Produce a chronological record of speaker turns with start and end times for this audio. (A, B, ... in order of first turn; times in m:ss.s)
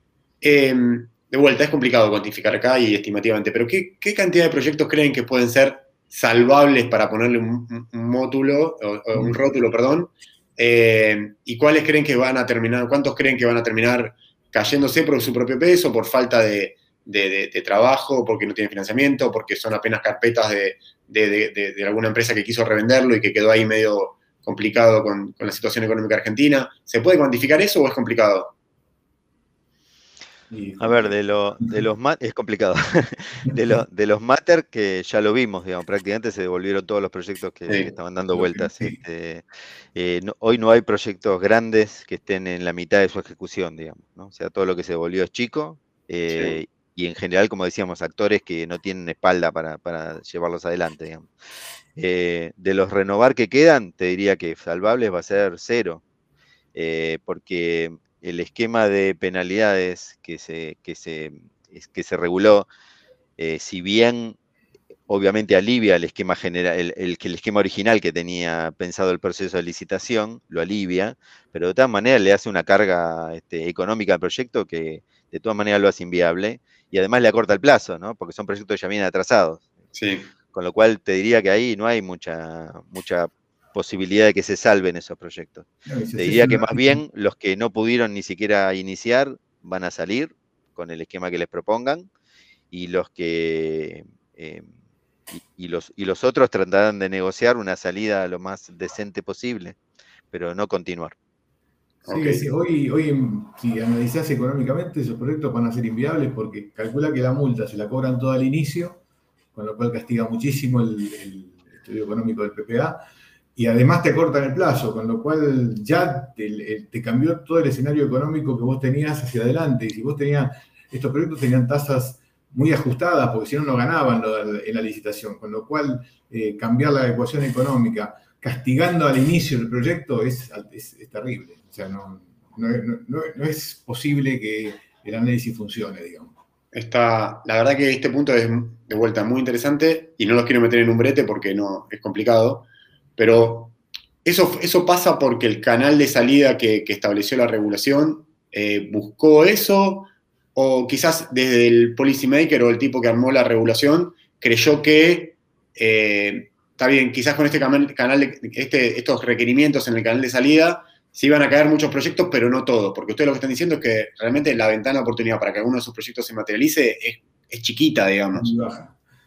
0:00.4-0:28.5 A
0:30.5-0:31.8 B
0:30.8-0:51.3 C
0:37.7-0:37.9 A
0:38.3-0:39.0 B
0:46.3-0:46.6 A
0:52.0-0:56.0 C
0:56.7-1:02.7 C
1:03.4-1:04.4 C
1:05.1-1:19.7 C
1:19.9-1:20.3 A
1:20.5-1:32.1 C
1:25.9-1:27.0 B
1:32.7-1:34.7 C
1:35.3-1:39.8 C
1:40.3-1:41.1 C
1:42.0-1:42.4 A
1:42.1-1:49.0 B
1:49.5-1:53.0 B
1:53.6-2:16.3 B
2:16.7-2:48.7 A
2:48.3-2:48.9 B